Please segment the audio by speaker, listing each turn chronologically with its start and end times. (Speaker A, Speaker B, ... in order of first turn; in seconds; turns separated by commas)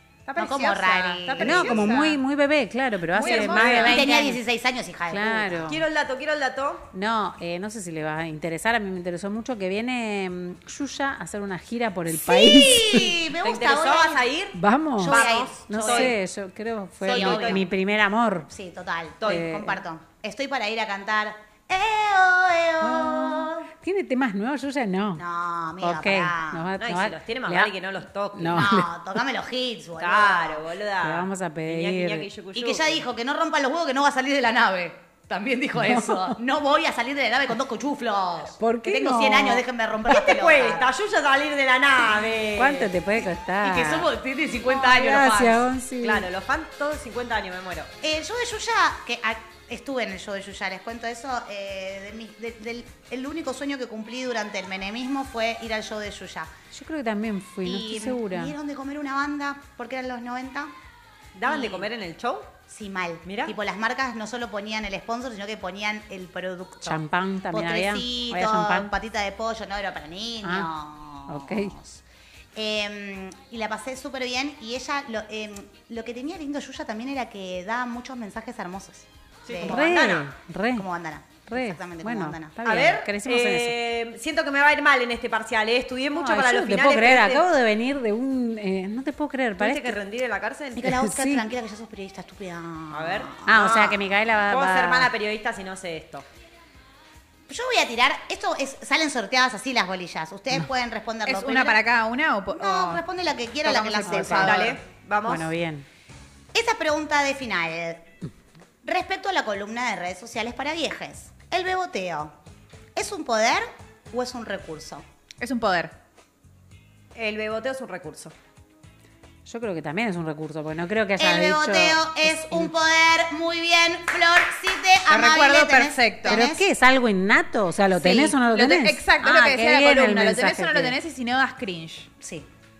Speaker A: 0.3-2.2, Speaker B: 0.3-2.1, Speaker C: 1.4-4.4, Speaker A: 3.1-4.1, Speaker D: 3.2-4.0, Speaker B: 3.6-5.8, Speaker C: 5.1-5.8, Speaker D: 5.7-6.9, Speaker C: 6.9-13.2, Speaker B: 12.1-14.3, Speaker D: 13.4-16.1, Speaker C: 14.5-18.5, Speaker B: 15.0-16.1, Speaker D: 17.0-17.6, Speaker B: 17.1-17.6, Speaker B: 18.5-23.7, Speaker D: 19.2-19.5, Speaker C: 19.3-19.8, Speaker C: 22.8-25.2, Speaker B: 25.2-26.7, Speaker C: 25.8-27.7, Speaker D: 26.8-28.8, Speaker C: 28.3-28.9, Speaker B: 28.5-30.6, Speaker D: 30.0-33.0, Speaker C: 31.0-32.3, Speaker B: 32.5-40.8, Speaker C: 35.7-36.4, Speaker C: 38.6-39.6, Speaker D: 40.1-42.9, Speaker C: 42.5-44.1, Speaker B: 43.6-45.7, Speaker C: 44.6-46.3, Speaker D: 46.0-47.9, Speaker B: 48.0-56.5, Speaker C: 56.7-58.5, Speaker B: 57.6-60.7, Speaker D: 61.3-62.5, Speaker B: 61.4-61.9, Speaker B: 62.7-72.0, Speaker D: 63.2-63.5, Speaker C: 66.8-68.9, Speaker C: 70.4-70.7, Speaker C: 71.3-71.8, Speaker B: 72.5-82.6, Speaker D: 79.4-80.0, Speaker C: 79.6-80.8, Speaker C: 81.5-83.8, Speaker D: 82.6-87.5, Speaker C: 86.1-90.0, Speaker D: 89.6-91.0, Speaker B: 90.7-93.7, Speaker C: 90.8-91.5, Speaker D: 92.9-96.2, Speaker C: 93.4-95.1, Speaker B: 97.5-101.8, Speaker A: 101.2-103.0, Speaker B: 102.5-104.7, Speaker A: 103.6-104.8, Speaker D: 104.2-105.5, Speaker C: 105.2-105.8, Speaker B: 106.5-108.1, Speaker B: 108.8-112.3, Speaker B: 112.9-115.0, Speaker A: 115.4-115.9, Speaker D: 117.1-118.3, Speaker C: 119.5-122.7, Speaker B: 121.2-126.7, Speaker A: 125.1-126.5, Speaker C: 126.2-131.0, Speaker A: 128.0-132.1, Speaker B: 132.2-132.5